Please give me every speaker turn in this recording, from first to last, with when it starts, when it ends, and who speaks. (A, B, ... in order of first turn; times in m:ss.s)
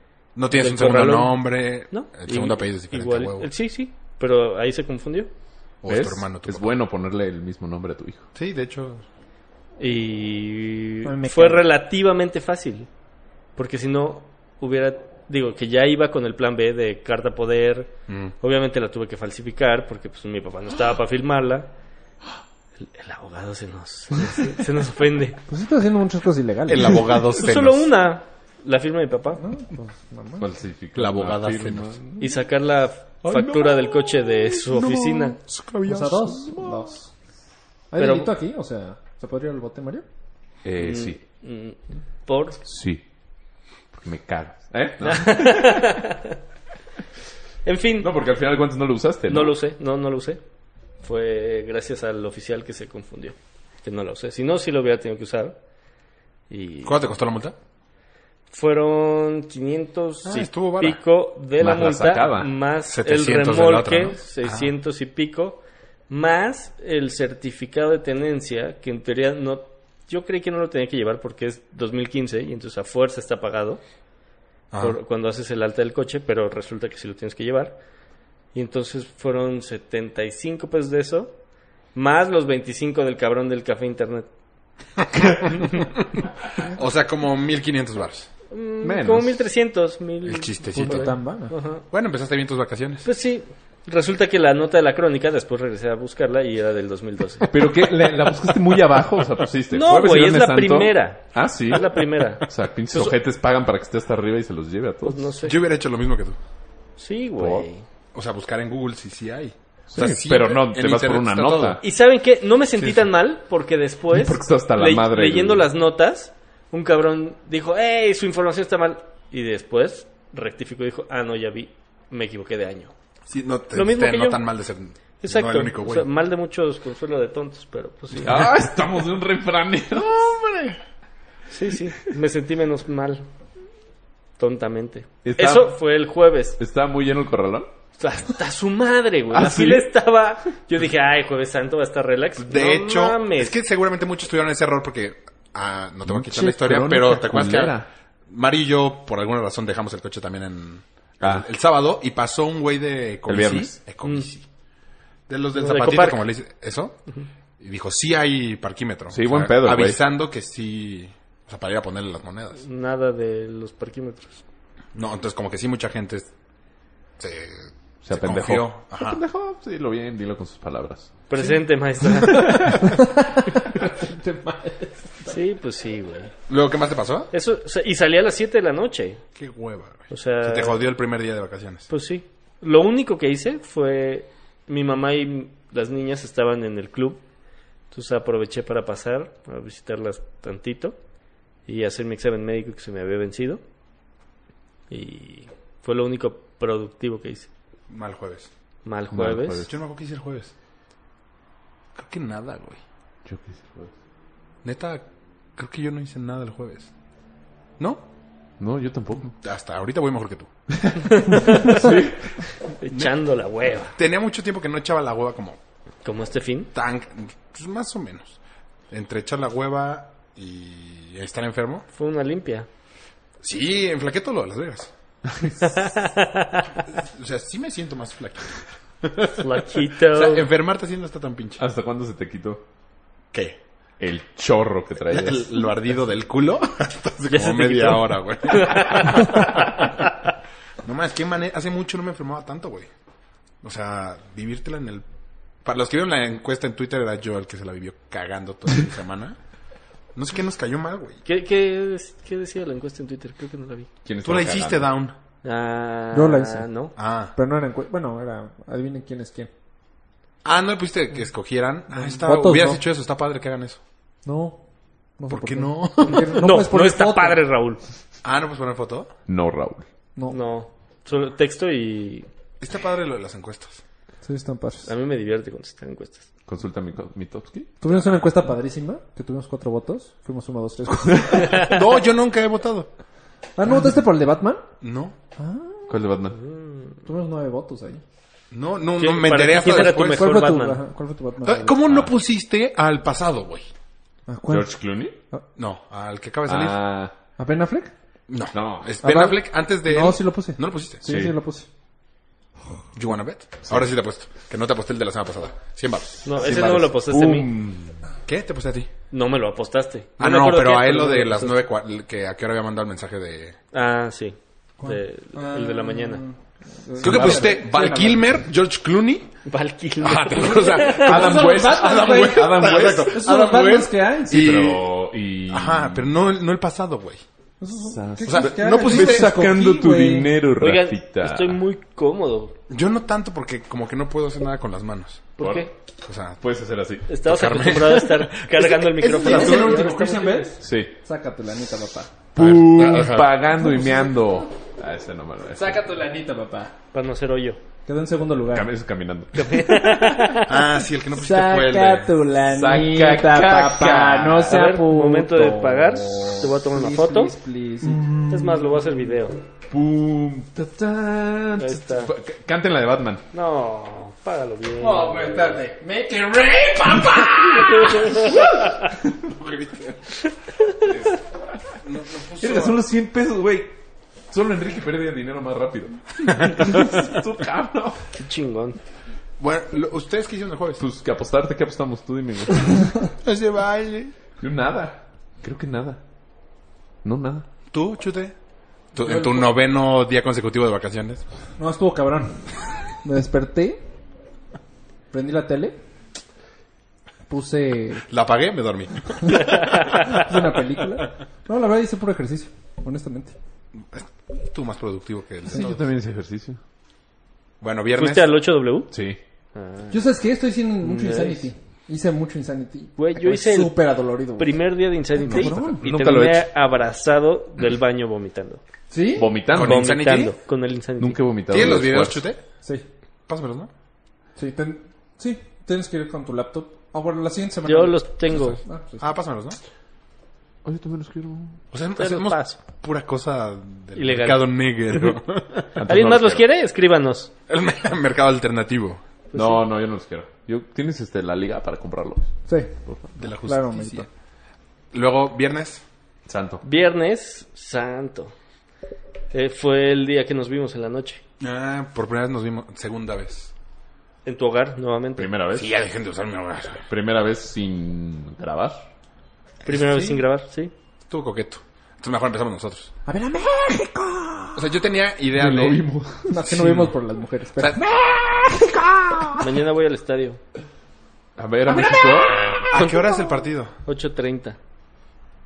0:00.4-0:03.5 A
0:00.5-0:05.3 B
0:05.8-0:06.7 A
0:05.9-0:08.2 C
0:08.4-0:09.0 A
0:09.8-0:12.9 B
0:11.0-0:11.6 D
0:13.6-0:21.7 B
0:18.1-0:18.3 A
0:22.8-0:25.4 B
0:25.5-0:27.2 D
0:26.7-0:27.9 A
0:27.3-0:29.4 B
0:29.4-0:30.5 D
0:30.4-0:32.2 C
0:31.0-0:32.0 A
0:32.2-0:35.4 B
0:33.3-0:34.1 C
0:34.6-0:36.8 A
0:35.9-0:37.1 D
0:37.9-0:40.0 D
0:38.0-0:38.4 B
0:40.6-0:41.2 C
0:40.8-0:42.6 B
0:42.7-0:43.0 C
0:43.9-0:46.0 C
0:45.0-0:46.4 B
0:47.6-0:48.1 B
0:48.0-0:49.6 C
0:49.3-0:50.4 B
0:51.0-0:55.6 B
0:56.5-0:57.0 B
0:56.8-0:57.6 A
0:58.5-1:13.8 B
1:00.2-1:01.0 A
1:01.6-1:02.5 C
1:02.9-1:04.7 A
1:14.7-1:15.0 A
1:14.8-1:17.8 B
1:18.5-1:21.4 B
1:22.0-1:24.3 B
1:25.2-1:25.8 A
1:26.6-1:28.3 A
1:28.5-1:31.8 B
1:28.8-1:29.4 C
1:30.2-1:31.2 A
1:30.7-1:31.5 D
1:31.9-1:33.1 A
1:33.0-1:37.5 B
1:37.4-1:45.3 C
1:39.7-1:43.2 B
1:45.0-1:45.6 B
1:45.4-1:46.4 A
1:47.0-1:47.8 B
1:47.4-1:47.7 C
1:48.1-1:51.8 A
1:49.9-1:51.8 C
1:51.8-2:02.9 B
1:54.1-1:55.7 C
2:03.3-2:06.1 A
2:03.7-2:04.4 B
2:05.2-2:08.5 B
2:08.1-2:10.4 C
2:10.2-2:10.8 A
2:11.5-2:13.3 B
2:14.4-2:16.6 B
2:15.2-2:15.8 C
2:16.6-2:17.7 C
2:18.0-2:23.6 B
2:19.3-2:19.9 C
2:22.4-2:34.4 A
2:26.0-2:27.9 C
2:31.2-2:31.5 C
2:33.3-2:33.8 C
2:34.0-2:34.3 B
2:35.3-2:37.0 A
2:35.6-2:36.3 B
2:37.6-2:42.6 A
2:39.1-2:40.0 C
2:42.6-2:44.4 B
2:44.9-2:46.3 A
2:47.2-2:49.2 A
2:48.0-2:51.1 C
2:51.3-2:52.8 B
2:52.3-2:52.8 C
2:52.6-2:55.4 D
2:55.3-2:56.3 B
2:56.5-2:57.3 A
2:57.3-2:59.2 B
2:59.4-3:01.9 A
3:00.1-3:00.8 B
3:01.9-3:07.2 B
3:07.9-3:11.0 B
3:11.7-3:13.6 B
3:14.9-3:17.5 B
3:17.9-3:18.5 A
3:18.8-3:19.7 B
3:19.1-3:19.7 C
3:19.7-3:20.5 A
3:22.0-3:22.8 A
3:23.3-3:23.9 C
3:24.6-3:25.0 A
3:25.6-3:26.9 A
3:28.6-3:29.3 C
3:29.4-3:30.5 A
3:30.7-3:32.4 C
3:31.2-3:31.9 B
3:32.6-3:34.0 B
3:34.0-3:35.6 A
3:36.0-3:36.7 B
3:36.7-3:38.4 A
3:38.9-3:41.9 A
3:41.9-3:42.7 B
3:43.4-3:44.9 A
3:45.6-3:46.8 B
3:46.9-3:49.5 A
3:49.4-3:50.5 B
3:50.1-3:51.6 A
3:51.6-3:52.6 C
3:53.3-3:53.6 A
3:54.0-3:55.7 C
3:55.1-3:59.9 A
3:57.3-4:00.1 B
4:00.8-4:02.9 A
4:03.6-4:05.0 A
4:05.6-4:09.4 A
4:10.2-4:11.2 A
4:11.2-4:13.9 B
4:14.0-4:14.9 C
4:14.2-4:15.2 A
4:15.4-4:16.9 B
4:16.1-4:16.7 D
4:17.0-4:17.3 A
4:17.4-4:19.5 D
4:20.4-4:23.8 A
4:21.9-4:22.8 D
4:24.2-4:24.6 D
4:25.2-4:27.4 D
4:25.3-4:26.3 A
4:26.0-4:27.8 B
4:28.2-4:29.1 A
4:29.3-4:29.8 C
4:30.3-4:32.3 B
4:32.6-4:33.8 A
4:34.2-4:34.9 D
4:34.9-4:36.3 B
4:36.5-4:37.7 C
4:37.8-4:41.7 D
4:37.9-4:38.2 A
4:41.1-4:41.6 C
4:41.6-4:42.9 A
4:43.6-4:44.7 D
4:44.8-4:45.2 A
4:45.4-4:46.0 D
4:45.9-4:46.4 C
4:46.4-4:46.9 B
4:47.0-4:48.0 D
4:48.5-4:50.3 A
4:49.0-4:50.8 B
4:49.9-4:51.8 D
4:51.4-4:53.7 A
4:51.8-4:52.1 C
4:54.3-4:55.4 D
4:54.5-4:55.2 C
4:55.6-4:56.8 A
4:56.5-4:57.1 C
4:57.4-4:57.9 D
4:58.3-5:01.0 A
4:58.5-4:58.9 C
4:59.0-5:01.7 D
5:01.0-5:01.4 C
5:02.9-5:06.9 A
5:06.2-5:07.5 B
5:06.5-5:08.0 C
5:08.3-5:08.9 A
5:09.1-5:11.6 B
5:10.2-5:13.6 A
5:13.7-5:16.2 B
5:14.8-5:18.4 D
5:17.0-5:17.5 C
5:17.0-5:19.3 A
5:19.4-5:21.2 B
5:20.0-5:27.2 A
5:20.4-5:24.5 D
5:20.9-5:23.2 C
5:24.3-5:26.1 C
5:27.6-5:30.3 D
5:27.9-5:31.6 C
5:28.2-5:29.4 A
5:30.6-5:32.6 B
5:32.7-5:35.3 A
5:35.4-5:35.7 B
5:35.4-5:35.7 C
5:36.0-5:36.4 A
5:36.4-5:37.1 C
5:37.1-5:40.5 B
5:37.2-5:40.4 A
5:39.2-5:42.2 D
5:40.6-5:40.9 C
5:42.4-5:45.8 C
5:42.4-5:43.3 A
5:43.6-5:44.5 D
5:45.5-5:46.8 D
5:46.9-5:47.6 B
5:47.9-5:48.7 D
5:48.5-5:49.7 C
5:49.3-5:50.6 B
5:50.4-5:52.1 A
5:51.1-5:58.1 D
5:52.5-5:54.7 C
5:54.5-5:57.3 B
5:57.8-5:58.8 C
5:58.3-5:59.4 B
5:59.7-6:03.2 C
6:01.6-6:02.1 B
6:03.3-6:05.6 B
6:04.8-6:08.4 D
6:07.7-6:08.5 B
6:09.2-6:10.0 A
6:11.8-6:12.8 A
6:12.4-6:13.8 C
6:14.3-6:18.0 C
6:18.2-6:18.8 B
6:19.4-6:20.8 A
6:20.8-6:23.0 C
6:23.2-6:24.1 A
6:24.4-6:26.0 C
6:27.0-6:27.5 C
6:27.7-6:28.4 A
6:28.9-6:31.2 A
6:29.0-6:29.5 D
6:31.6-6:33.8 D
6:35.1-6:35.8 D
6:37.3-6:38.0 D
6:38.1-6:39.6 A
6:39.5-6:40.2 B
6:40.0-6:43.4 D
6:43.9-6:45.8 A
6:45.5-6:46.6 C
6:47.6-6:48.4 A
6:48.0-6:48.9 B
6:48.9-6:49.2 C
6:49.6-6:50.0 B
6:49.9-6:54.6 D
6:50.8-6:51.5 B
6:53.0-6:53.8 B
6:54.4-6:58.6 B
6:55.2-6:55.8 D
6:55.3-6:56.5 C
6:58.9-6:59.3 D
6:59.2-7:00.0 C
6:59.5-7:00.4 A
6:59.5-7:01.2 B
7:01.0-7:02.2 C
7:01.5-7:02.4 A
7:03.3-7:03.7 A
7:04.4-7:09.1 D
7:07.6-7:08.6 B
7:09.0-7:09.6 A
7:10.6-7:11.6 C
7:11.7-7:15.7 A
7:12.0-7:12.6 B
7:14.0-7:15.1 B
7:15.8-7:16.4 C
7:15.9-7:17.3 B
7:17.5-7:19.0 A
7:19.3-7:19.6 B
7:19.3-7:22.3 C
7:22.5-7:24.1 D
7:22.9-7:23.2 C
7:23.2-7:24.1 A
7:24.9-7:25.8 A
7:26.3-7:26.6 C
7:26.6-7:28.3 B
7:29.3-7:31.2 B
7:31.4-7:33.5 A
7:34.2-7:35.3 B
7:35.2-7:35.7 C
7:35.5-7:36.9 A
7:36.9-7:38.8 C
7:39.6-7:40.2 A
7:39.6-7:40.7 B
7:41.1-7:42.9 A
7:43.1-7:44.8 D
7:44.6-7:45.8 A
7:45.4-7:46.7 C
7:46.3-7:49.6 D
7:46.4-7:46.9 A
7:47.6-7:47.8 A
7:49.4-7:50.4 B
7:51.4-7:52.6 C
7:51.7-7:53.2 D
7:52.7-7:53.7 A
7:53.8-7:54.6 B